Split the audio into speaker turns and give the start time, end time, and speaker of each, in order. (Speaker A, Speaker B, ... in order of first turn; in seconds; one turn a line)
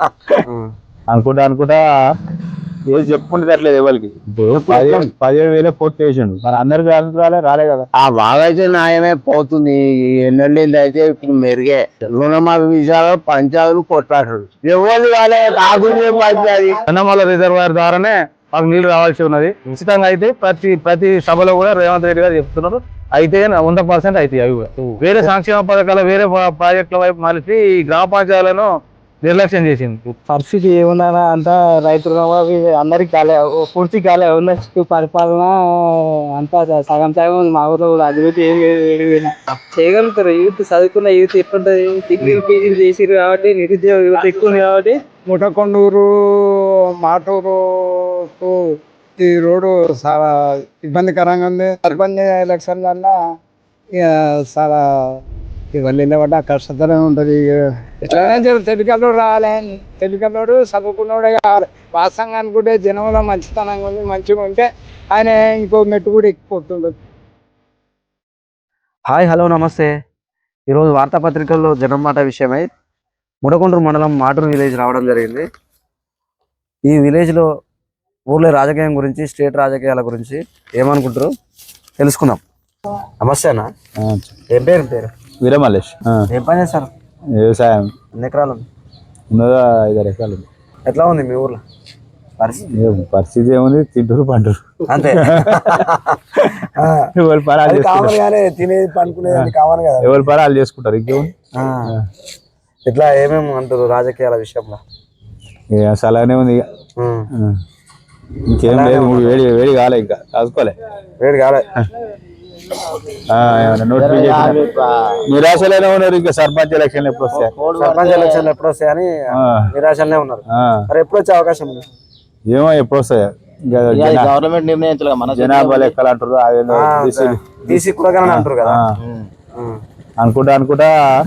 Speaker A: 1.1-1.8
Speaker A: 2.9-7.9
Speaker B: 4.5-5.1
Speaker C: 7.9-16.8
Speaker D: 16.9-28.7
Speaker B: 24.8-25.3
Speaker D: 29.2-30.1
Speaker E: 30.2-45.0
Speaker F: 45.3-48.6
Speaker F: 49.2-53.1
Speaker F: 54.0-55.2
Speaker F: 55.7-66.9
Speaker B: 69.1-69.9
Speaker B: 70.7-72.7
Speaker B: 73.4-75.5
Speaker B: 76.9-77.5
Speaker B: 78.3-81.3
Speaker B: 82.0-82.4
Speaker B: 83.2-83.7
Speaker A: 84.0-84.3
Speaker B: 84.5-85.1
Speaker A: 85.4-86.2
Speaker B: 86.3-86.9
Speaker A: 87.4-87.9
Speaker B: 88.1-88.7
Speaker A: 89.3-90.5
Speaker B: 90.9-91.6
Speaker B: 92.4-92.7
Speaker A: 92.7-95.8
Speaker B: 94.9-96.2
Speaker B: 96.7-97.1
Speaker A: 97.1-98.2
Speaker B: 97.6-100.3
Speaker A: 99.3-101.3
Speaker B: 101.5-102.0
Speaker B: 102.8-104.8
Speaker A: 105.7-106.6
Speaker B: 107.0-107.3
Speaker A: 108.5-110.7
Speaker B: 108.7-109.4
Speaker B: 111.2-111.7
Speaker A: 113.3-114.6
Speaker B: 114.0-114.5
Speaker C: 114.2-115.1
Speaker A: 115.2-117.5
Speaker C: 117.4-118.4
Speaker B: 117.8-119.1
Speaker A: 119.4-119.7
Speaker B: 119.7-121.8
Speaker A: 120.5-120.8
Speaker A: 122.5-124.3
Speaker C: 123.9-125.9
Speaker A: 125.3-128.9
Speaker B: 126.7-128.8
Speaker A: 130.2-130.9